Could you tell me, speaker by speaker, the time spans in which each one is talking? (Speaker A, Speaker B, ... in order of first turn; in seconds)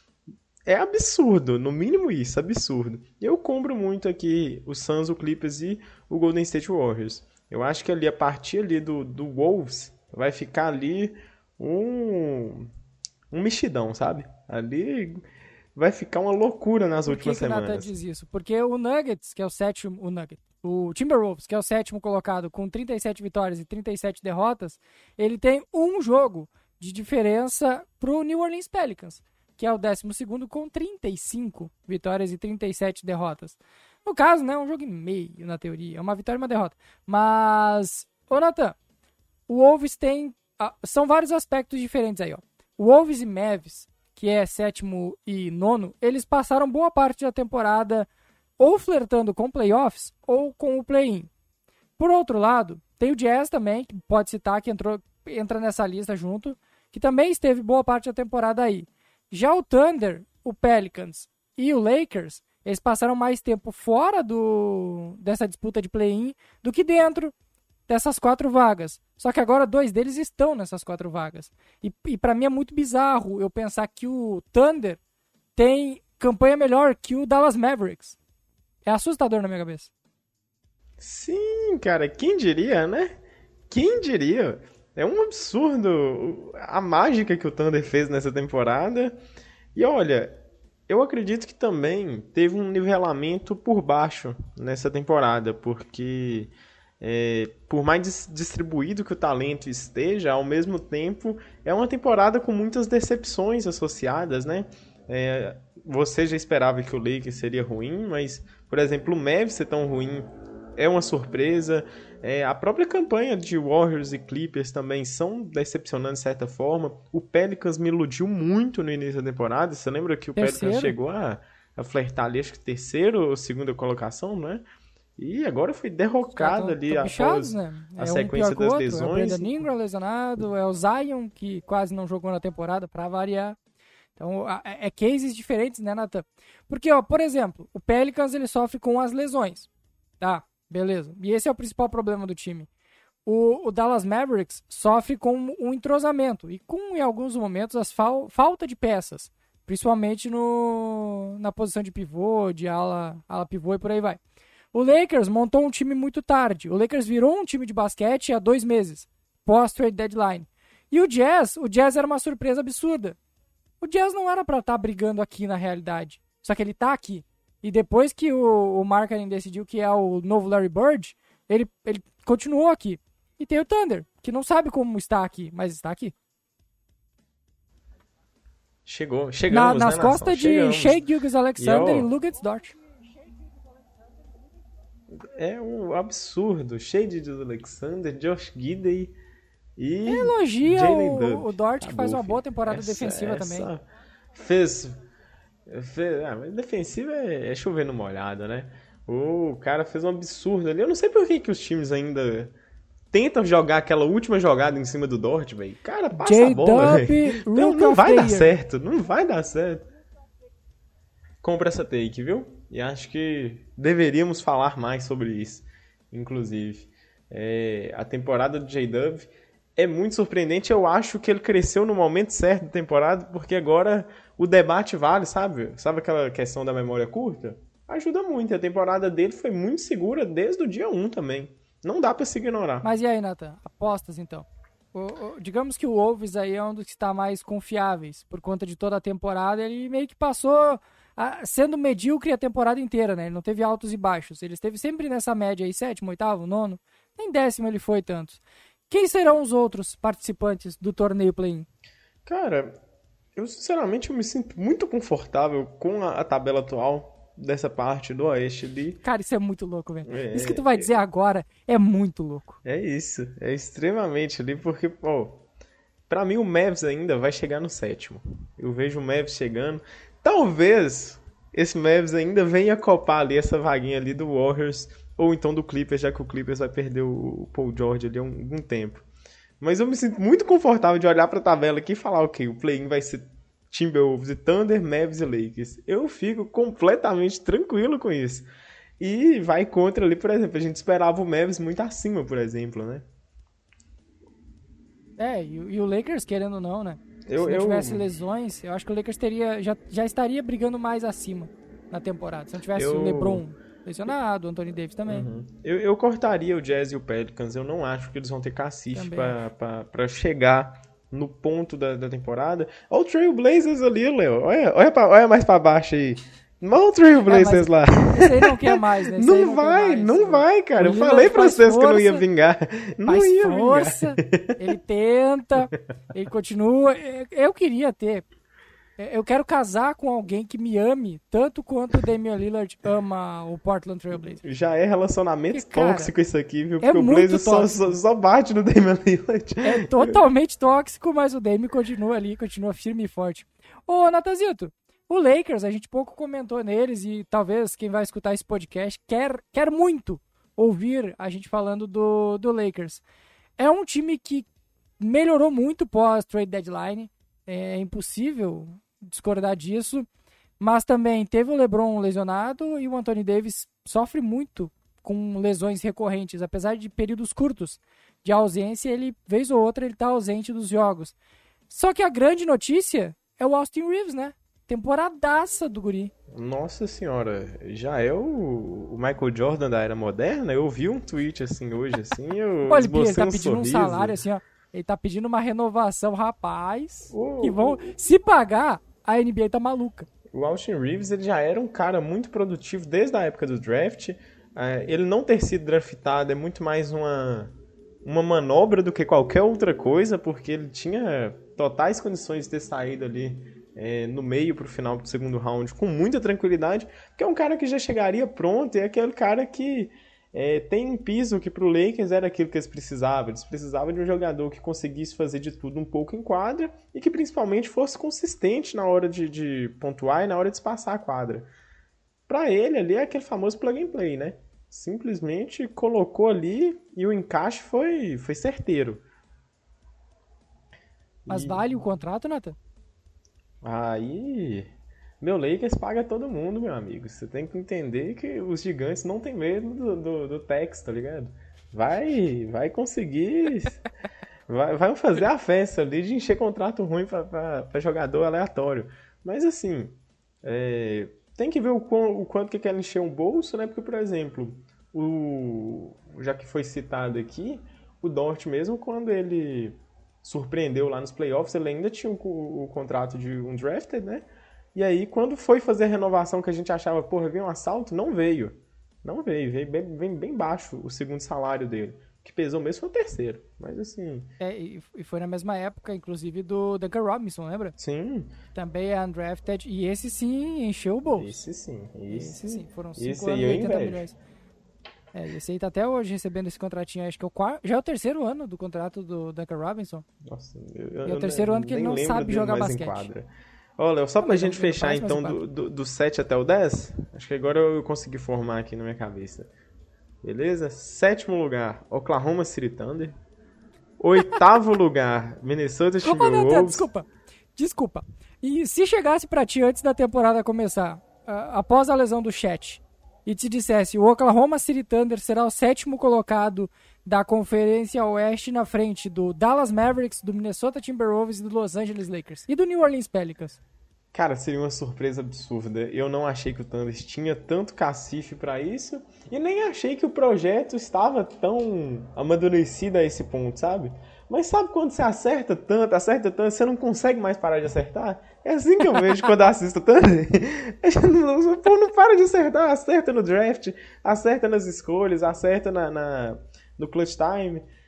Speaker A: 0.7-12.7, 13.3-17.9, 81.0-83.1, 83.7-89.2, 89.7-110.2, 110.8-124.6, 125.2-129.6, 178.8-181.1, 181.6-182.1, 185.1-189.1, 189.8-193.8, 194.3-194.9, 195.7-202.5, 203.1-209.8, 211.4-232.8, 252.2-252.8, 253.3-259.0, 260.0-260.9, 262.6-265.4, 266.1-279.1, 279.6-288.5, 289.0-293.0, 297.3-298.1, 302.7-303.4, 305.1-324.6, 334.4-340.2, 376.3-384.2, 387.1-387.9, 390.3-397.5, 398.0-421.5, 422.3-429.0, 431.2-431.8, 433.6-434.7, 435.2-443.9, 444.5-474.3, 477.8-478.3, 481.1-484.1, 490.2-499.5, 500.2-503.1, 504.0-506.9, 524.1-547.6
Speaker B: 17.0-38.8, 39.5-51.3, 52.0-67.3, 67.9-75.0, 75.5-78.2, 78.8-79.9, 120.3-121.0, 126.2-133.6, 134.2-139.7, 140.2-142.7, 143.2-154.2, 154.7-163.2, 163.8-176.1, 179.5-182.7, 190.1-193.7, 206.1-208.5, 232.8-251.7, 259.0-262.6, 295.2-305.3, 308.9-309.4, 317.2-322.2, 323.1-328.3, 329.0-334.4, 335.5-336.1, 336.8-338.0, 339.6-353.0, 353.6-354.5, 355.0-360.1, 360.6-371.1, 371.7-376.1, 382.6-390.1, 431.3-432.6, 474.4-477.8, 478.5-481.3, 482.1-484.2, 485.1-490.0, 491.0-493.1, 494.2-495.4, 506.0-523.6